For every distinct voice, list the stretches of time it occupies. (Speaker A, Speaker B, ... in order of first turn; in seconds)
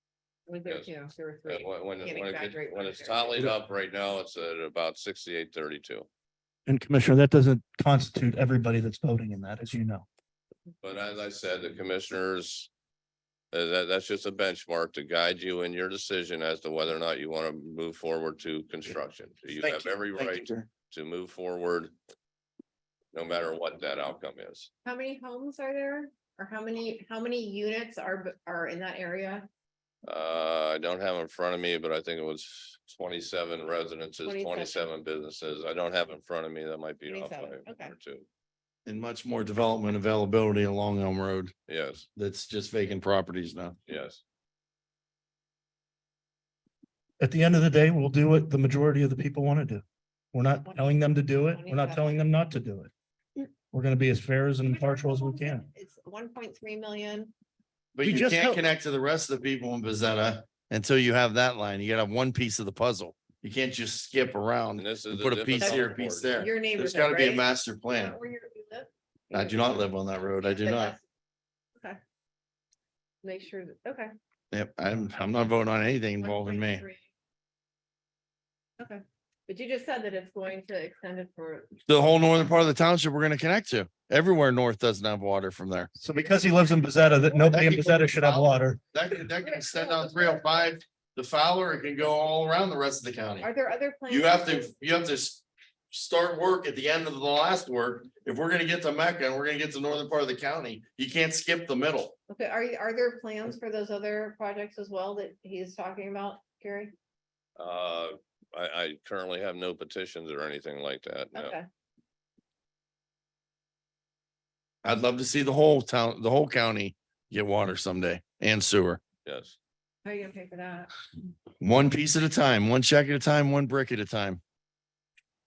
Speaker A: 0.5-3.5, 24.8-29.5, 34.2-34.9, 37.1-37.9, 50.6-52.2, 54.6-57.3, 65.6-69.9, 70.4-71.0, 73.2-74.1, 76.2-77.0, 78.8-81.8, 89.4-90.7, 93.4-94.7, 102.3-106.9, 111.3-111.7, 120.0-120.9
Speaker B: 1.4-6.1, 10.8-12.7, 13.5-21.9, 23.1-24.7, 30.0-38.2, 41.7-42.0, 43.9-44.2, 64.8-66.4, 107.6-111.5, 119.2-119.5
Speaker C: 6.7-10.1, 47.2-52.9, 53.7-55.6, 58.0-58.6, 86.0-88.8
Speaker D: 19.7-20.5, 38.9-41.5, 42.1-43.8, 57.9-68.2, 69.3-70.9, 74.5-76.8, 81.9-85.9, 87.5-93.5, 94.1-102.1, 114.8-119.0, 121.6-124.4